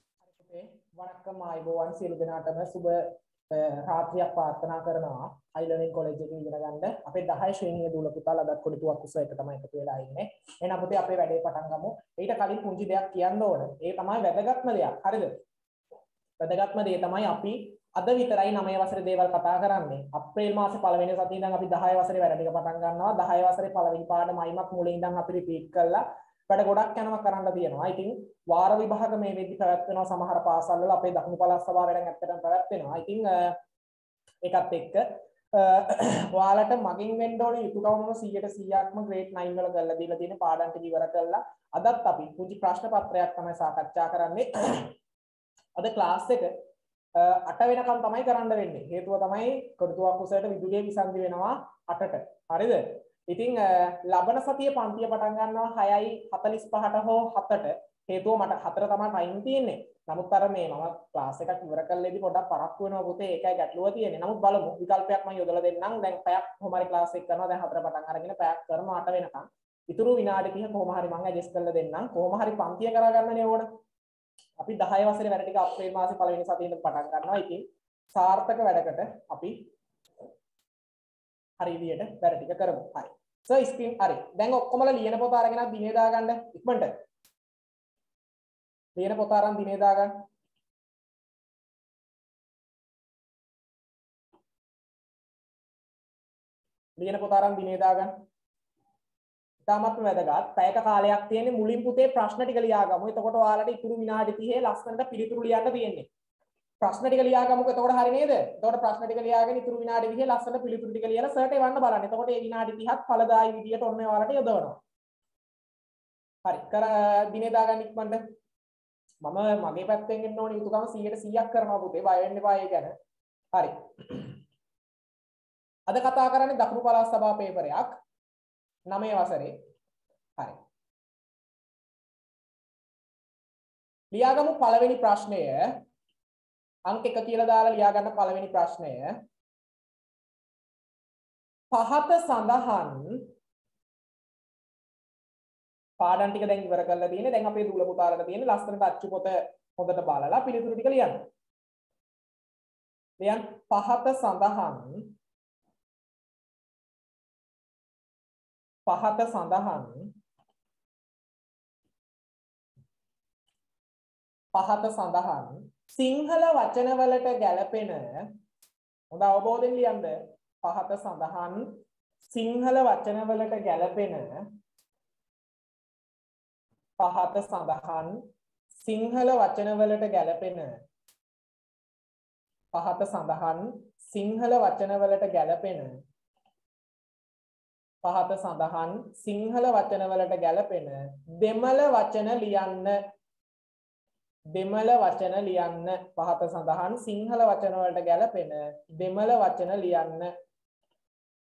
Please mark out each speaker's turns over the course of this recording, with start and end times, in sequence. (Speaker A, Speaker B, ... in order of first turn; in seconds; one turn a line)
Speaker A: 0.2-15.3
Speaker A: 16.4-33.5
Speaker A: 34.4-44.9
Speaker A: 45.8-46.5
Speaker A: 47.2-73.7
Speaker A: 74.6-79.6
Speaker A: 81.6-86.9
Speaker A: 89.0-90.1
Speaker A: 97.0-98.1
Speaker A: 99.7-106.1
Speaker A: 106.8-114.8
Speaker A: 116.5-118.2
Speaker A: 119.2-122.9
Speaker A: 123.5-124.3
Speaker A: 125.9-128.0
Speaker A: 128.9-129.5
Speaker A: 134.1-135.7
Speaker A: 136.9-139.1
Speaker A: 141.7-143.2
Speaker A: 146.0-151.2
Speaker A: 153.2-155.1
Speaker A: 158.9-160.1
Speaker A: 164.5-168.3
Speaker A: 169.1-174.4
Speaker A: 177.0-178.2
Speaker A: 178.8-180.7
Speaker A: 182.7-185.9
Speaker A: 188.0-193.0
Speaker A: 194.5-200.3